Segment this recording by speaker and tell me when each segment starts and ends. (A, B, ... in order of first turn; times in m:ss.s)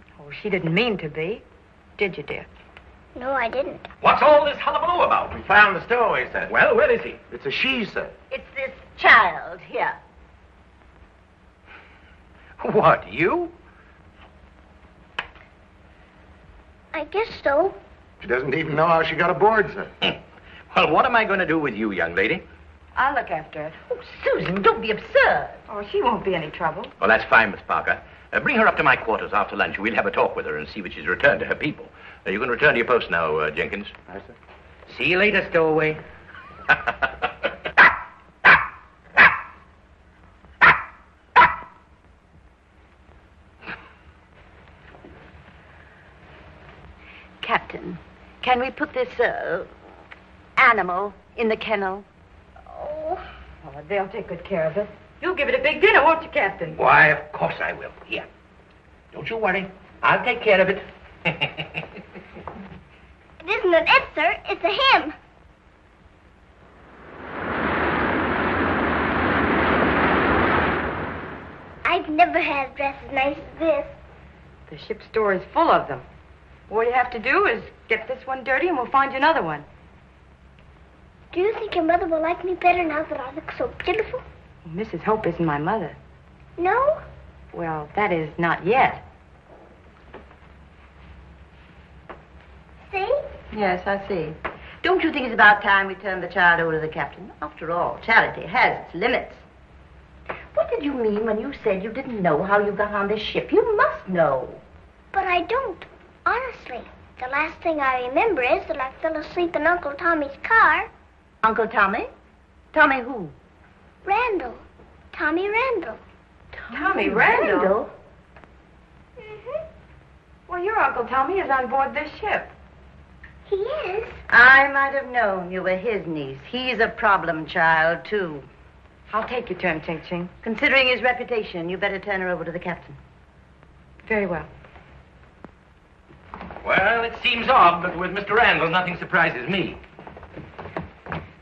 0:00.2-0:01.4 A
0:02.0-0:02.5 A
0:03.1-0:03.9 B
0:04.6-0:05.2 C
0:05.3-0:06.6 D
0:06.5-0:07.2 C
0:07.3-0:08.1 D
0:08.3-0:10.0 E
0:12.6-0:13.5 D
0:16.9-0:17.8 B
0:18.2-0:19.9 D
0:20.7-0:22.4 C
0:23.0-0:23.8 A
0:23.9-0:25.6 E
0:25.7-0:26.9 A
0:27.0-0:34.0 C
0:47.4-0:49.7 E
0:50.6-0:52.0 E
0:52.7-0:53.2 B
0:53.6-0:56.8 A
0:56.8-0:58.2 C
0:59.1-1:00.8 C
1:03.4-1:05.1 B
1:11.8-1:14.0 B
1:14.7-1:16.0 A
1:16.7-1:19.7 A
1:21.3-1:24.2 B
1:24.6-1:26.0 A
1:26.6-1:27.0 B
1:27.5-1:29.0 A
1:32.9-1:33.3 B
1:33.5-1:39.4 E
1:40.5-1:44.6 E
1:45.1-1:50.9 B
1:51.4-1:52.1 E
1:52.7-1:53.3 E
1:54.0-1:56.0 B
1:56.6-1:57.9 E
1:56.7-1:57.7 A
2:00.5-2:02.5 A
2:03.5-2:04.2 B
2:04.3-2:08.5 E
2:09.1-2:10.3 A
2:10.4-2:13.0 E
2:14.0-2:14.5 A
2:16.6-2:19.8 C